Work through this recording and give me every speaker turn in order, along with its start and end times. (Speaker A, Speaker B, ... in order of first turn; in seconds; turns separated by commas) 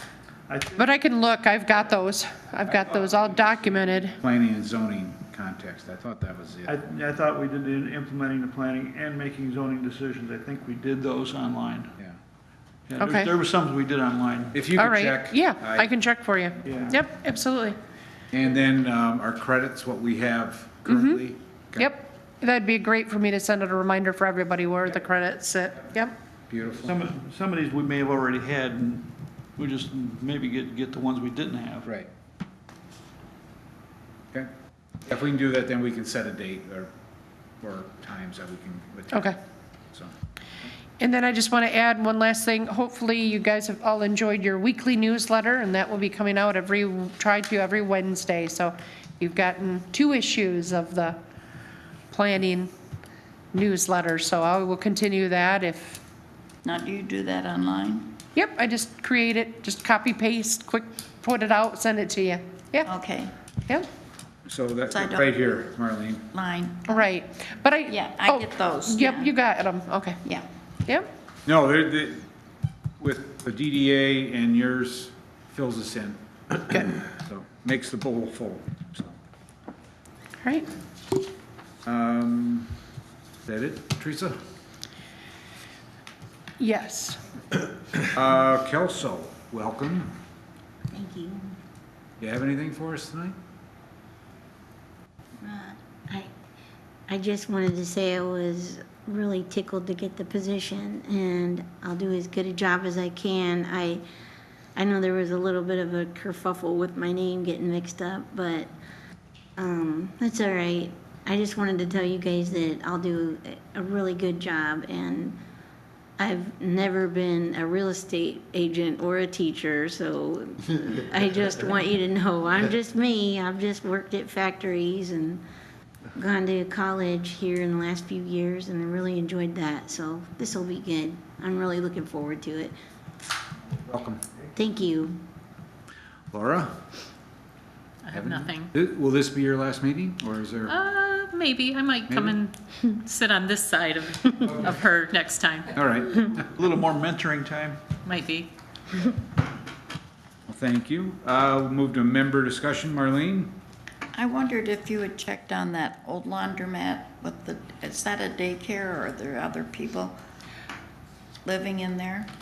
Speaker A: 0.5-0.9, Speaker B: 0.8-4.2, Speaker A: 2.6-4.2, Speaker C: 4.2-6.9, Speaker A: 6.7-11.9, Speaker A: 12.9-14.5, Speaker B: 13.0-13.3, Speaker C: 14.5-15.9, Speaker B: 14.8-17.8, Speaker A: 16.6-17.0, Speaker C: 18.3-21.9, Speaker B: 20.9-21.2, Speaker B: 21.8-26.1, Speaker C: 26.5-26.9, Speaker A: 26.8-31.9, Speaker C: 35.0-36.9, Speaker C: 37.6-39.3, Speaker B: 41.0-51.2, Speaker B: 52.1-52.7, Speaker B: 53.5-56.0, Speaker D: 56.6-58.1, Speaker B: 58.3-62.9, Speaker D: 62.8-63.3, Speaker C: 64.5-66.2, Speaker D: 64.9-65.7, Speaker D: 66.3-67.0, Speaker B: 66.9-70.2, Speaker D: 67.9-69.3, Speaker C: 71.5-72.2, Speaker C: 73.0-76.2, Speaker C: 77.1-79.2, Speaker B: 80.4-80.7, Speaker C: 81.8-82.7, Speaker C: 83.5-84.4, Speaker B: 86.6-87.2, Speaker C: 88.1-90.1, Speaker E: 90.9-91.6, Speaker C: 92.2-93.4, Speaker E: 95.4-96.3, Speaker E: 97.1-104.0, Speaker E: 104.8-108.7, Speaker E: 109.6-115.4, Speaker E: 116.2-125.4, Speaker E: 126.1-132.8, Speaker C: 133.8-134.2, Speaker E: 134.6-135.2, Speaker C: 136.3-136.8, Speaker F: 138.0-138.7, Speaker C: 138.1-140.7, Speaker F: 140.7-146.3, Speaker C: 142.1-142.4, Speaker C: 144.4-144.8, Speaker C: 145.7-146.4, Speaker A: 146.4-147.8, Speaker F: 148.0-149.1, Speaker C: 150.5-153.5, Speaker D: 154.1-160.2, Speaker D: 161.4-162.3